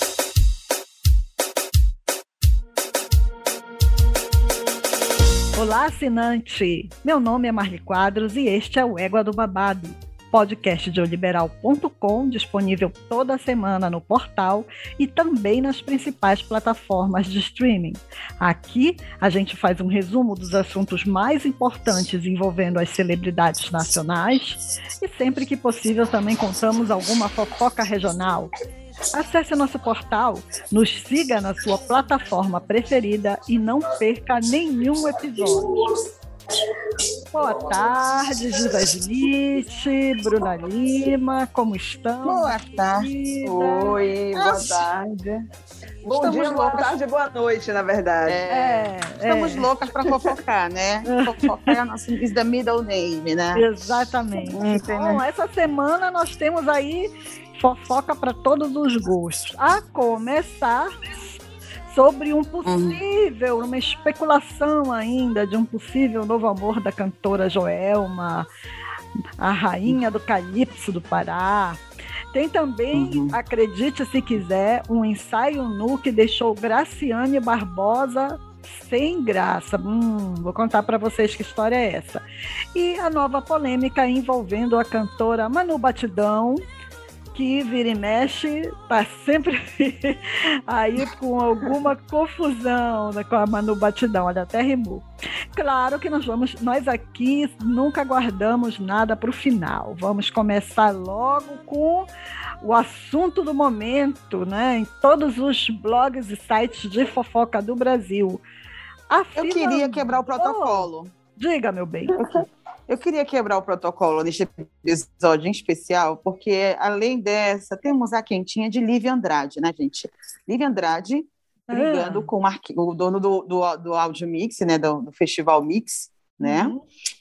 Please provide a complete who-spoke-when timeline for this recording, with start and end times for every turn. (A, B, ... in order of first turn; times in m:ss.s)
0:05.6-0:28.5 A
0:29.1-0:35.8 A
0:37.3-0:44.0 A
0:42.2-0:43.1 B
0:43.4-0:45.4 C
0:44.3-0:44.8 B
0:46.1-0:47.0 B
0:46.1-0:48.4 C
0:48.3-0:53.7 B
0:48.5-0:49.7 A
0:51.1-0:51.8 A
0:53.5-1:08.5 A
0:54.5-0:55.2 B
1:02.6-1:03.0 B
1:09.4-1:11.8 A
1:12.3-1:22.2 A
1:12.9-1:13.4 B
1:22.8-1:26.6 A
1:27.3-1:42.1 A
1:42.6-1:48.4 A
1:49.1-1:52.2 A
1:49.4-1:51.1 B
1:52.2-2:06.8 B
2:01.7-2:02.3 A
2:06.4-2:06.8 A